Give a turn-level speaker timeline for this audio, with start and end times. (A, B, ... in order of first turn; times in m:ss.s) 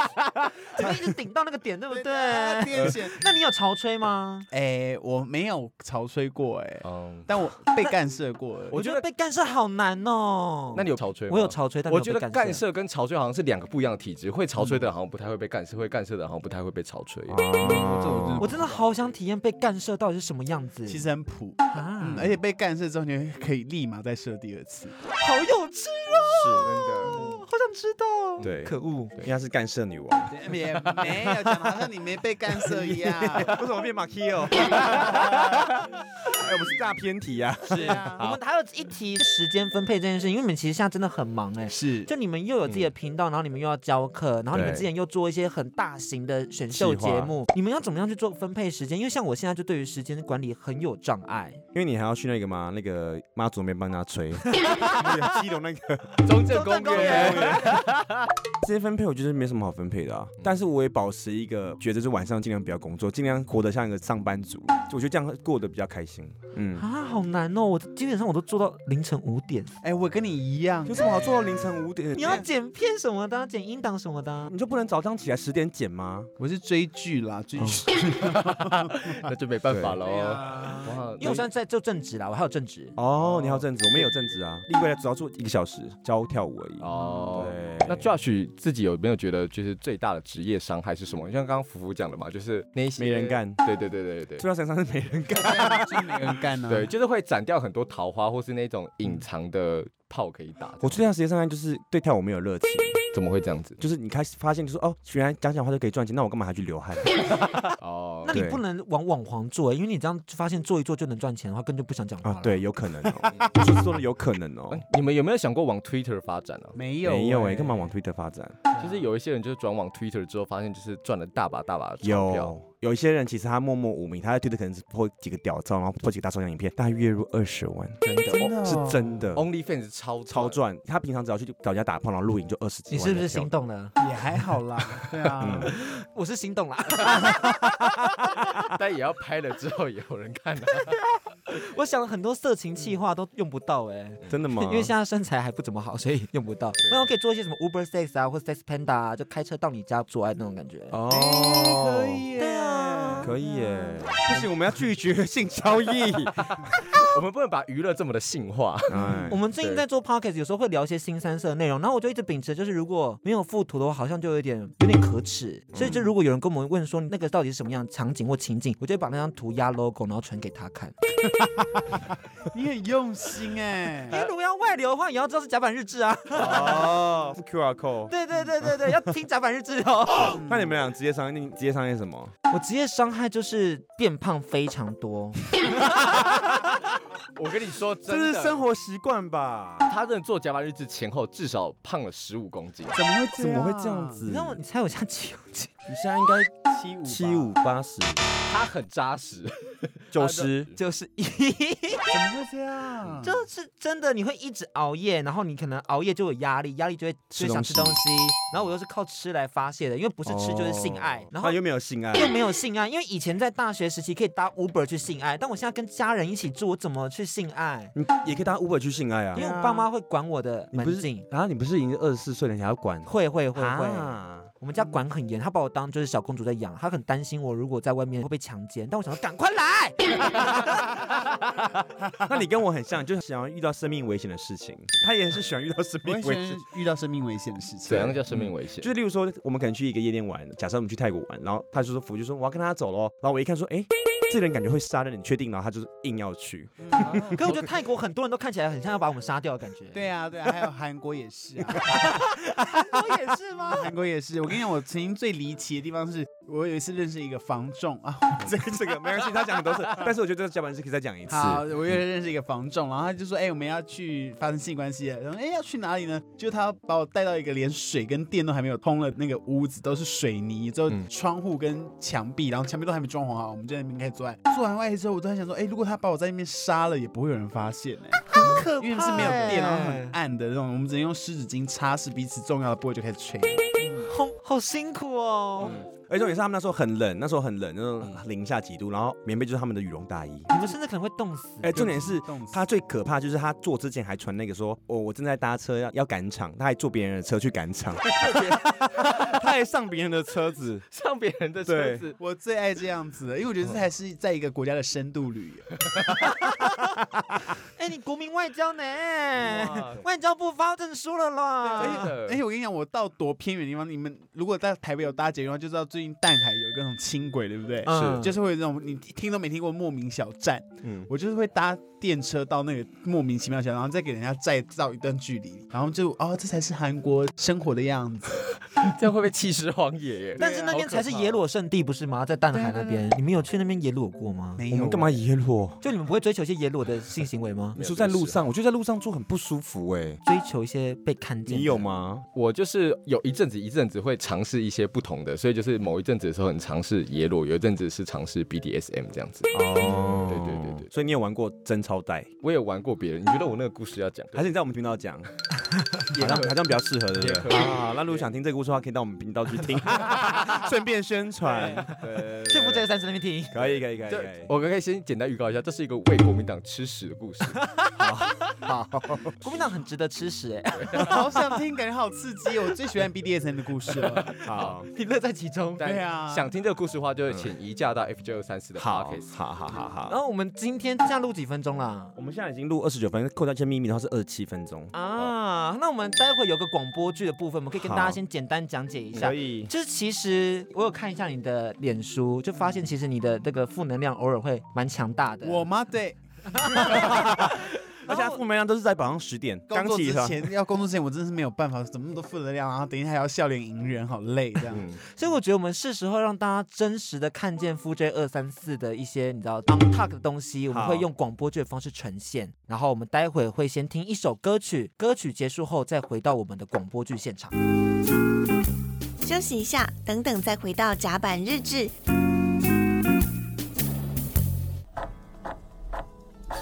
0:00.8-0:04.5 A
0:01.9-0:03.2 B
0:04.5-0:08.7 B
0:06.8-0:07.3 C
0:08.7-0:09.0 C
0:08.7-0:12.6 A
0:10.7-0:17.4 C
0:17.3-0:18.6 D
0:17.6-0:18.9 B
0:18.4-0:21.0 A
0:20.9-0:24.9 B
0:21.7-0:22.2 A
0:25.1-0:29.1 A
0:26.4-0:26.7 D
0:26.6-0:27.2 C
0:28.4-0:30.4 D
0:30.3-0:33.6 B
0:32.7-0:38.4 D
0:37.7-0:38.2 B
0:37.8-0:51.6 A
0:41.7-0:42.1 B
0:44.5-0:44.8 D
0:46.7-0:47.3 D
0:51.7-0:57.8 D
0:54.5-0:55.0 A
0:56.2-0:58.1 C
0:56.5-0:57.8 A
0:58.6-1:06.9 D
1:06.8-1:09.8 A
1:09.8-1:11.1 B
1:10.8-1:12.4 D
1:12.1-1:14.5 A
1:14.5-1:16.3 D
1:16.4-1:19.2 B
1:18.3-1:21.4 C
1:19.7-1:20.0 D
1:20.0-1:21.0 B
1:21.2-1:22.9 A
1:23.0-1:28.1 D
1:23.2-1:23.7 C
1:26.8-1:34.4 C
1:33.0-1:33.6 D
1:34.4-1:36.2 D
1:35.4-1:36.9 B
1:36.7-1:41.0 C
1:40.8-1:43.0 D
1:43.1-1:43.8 C
1:43.8-1:47.2 D
1:47.8-1:48.4 C
1:48.2-1:52.6 A
1:48.3-1:48.6 D
1:52.2-1:54.8 D
1:54.7-1:56.8 C
1:56.7-1:57.8 B
1:57.0-1:58.6 D
1:58.7-1:59.0 B
1:58.8-2:02.5 C
2:02.0-2:08.0 D
2:08.1-2:08.4 A
2:08.1-2:08.5 C
2:08.3-2:09.2 B
2:08.6-2:09.4 D
2:09.3-2:10.6 C
2:10.3-2:13.5 D
2:12.9-2:14.0 A
2:14.0-2:15.7 B
2:15.4-2:15.7 D
2:15.7-2:17.9 A
2:18.6-2:20.9 C
2:21.5-2:31.0 A
2:24.3-2:24.9 D
2:30.9-2:32.2 D
2:31.1-2:33.6 B
2:32.4-2:33.3 A
2:33.2-2:36.7 D
2:37.0-2:39.8 C
2:38.9-2:39.4 D
2:39.3-2:50.9 A
2:45.7-2:46.1 D
2:52.5-2:54.2 B
2:54.1-2:56.9 A
2:56.3-2:58.9 D
2:58.1-3:00.4 A
3:00.2-3:00.8 B
3:00.3-3:02.3 D
3:02.5-3:05.5 A
3:07.3-3:08.6 C
3:08.0-3:09.9 D
3:09.9-3:13.0 C
3:12.9-3:14.2 B
3:13.3-3:14.6 D
3:14.2-3:15.7 A
3:15.9-3:18.3 D
3:16.7-3:17.5 B
3:18.4-3:20.7 C
3:20.1-3:20.7 D
3:20.8-3:22.2 A
3:22.1-3:23.4 B
3:23.2-3:31.6 A
3:27.3-3:28.0 D
3:30.2-3:32.3 D
3:32.1-3:37.9 A
3:37.9-3:39.9 D
3:39.3-3:41.2 A
3:40.7-3:44.5 D
3:43.0-3:50.8 A
3:52.2-3:56.6 D
3:56.0-3:58.2 B
3:57.9-3:58.9 C
3:58.3-4:07.5 D
4:06.8-4:07.4 B
4:07.3-4:10.0 A
4:09.9-4:12.2 B
4:11.9-4:13.9 A
4:13.7-4:20.1 B
4:18.4-4:21.7 D
4:21.3-4:44.1 B
4:38.3-4:40.1 A
4:44.1-4:45.7 A
4:45.6-4:50.5 D
4:50.5-4:51.7 A
4:51.6-5:00.8 D
4:51.7-4:52.6 B
4:58.2-4:59.1 C
5:00.9-5:02.2 C
5:01.6-5:02.0 D
5:02.2-5:06.1 B
5:07.8-5:12.0 A
5:09.4-5:10.0 C
5:11.6-5:12.4 C
5:11.7-5:28.5 B
5:17.8-5:18.3 A
5:17.9-5:18.3 C
5:28.7-5:31.4 C
5:30.4-5:30.6 B
5:30.4-5:34.6 A
5:32.5-5:33.1 B
5:34.6-5:35.2 B
5:34.7-5:35.8 D
5:35.8-5:37.8 A
5:37.7-5:38.4 C
5:37.8-5:40.2 D
5:40.2-5:41.8 A
5:41.4-5:42.2 D
5:42.3-5:49.5 C
5:49.5-5:52.3 D
5:50.3-5:50.9 C
5:52.4-5:54.5 C
5:54.3-5:55.3 D
5:56.0-6:01.9 D
5:56.1-5:58.3 C
6:01.8-6:02.9 C
6:02.5-6:03.6 A
6:03.5-6:04.5 D
6:04.1-6:07.6 C
6:08.0-6:09.3 D
6:09.4-6:11.4 A
6:10.8-6:11.1 C
6:11.0-6:14.3 B
6:14.4-6:14.9 D
6:14.9-6:15.8 A
6:15.8-6:19.3 C
6:15.8-6:16.5 B
6:18.8-6:20.1 D
6:20.1-6:22.1 A
6:22.1-6:24.9 D
6:24.9-6:35.7 A
6:27.7-6:28.2 D
6:29.1-6:29.7 D
6:35.4-6:36.2 B
6:36.5-6:37.5 A
6:36.9-6:40.5 D
6:38.0-6:38.4 A
6:39.7-6:44.8 B
6:44.7-6:45.0 C
6:45.1-6:57.5 A
6:50.7-6:51.1 D
6:59.2-7:01.9 E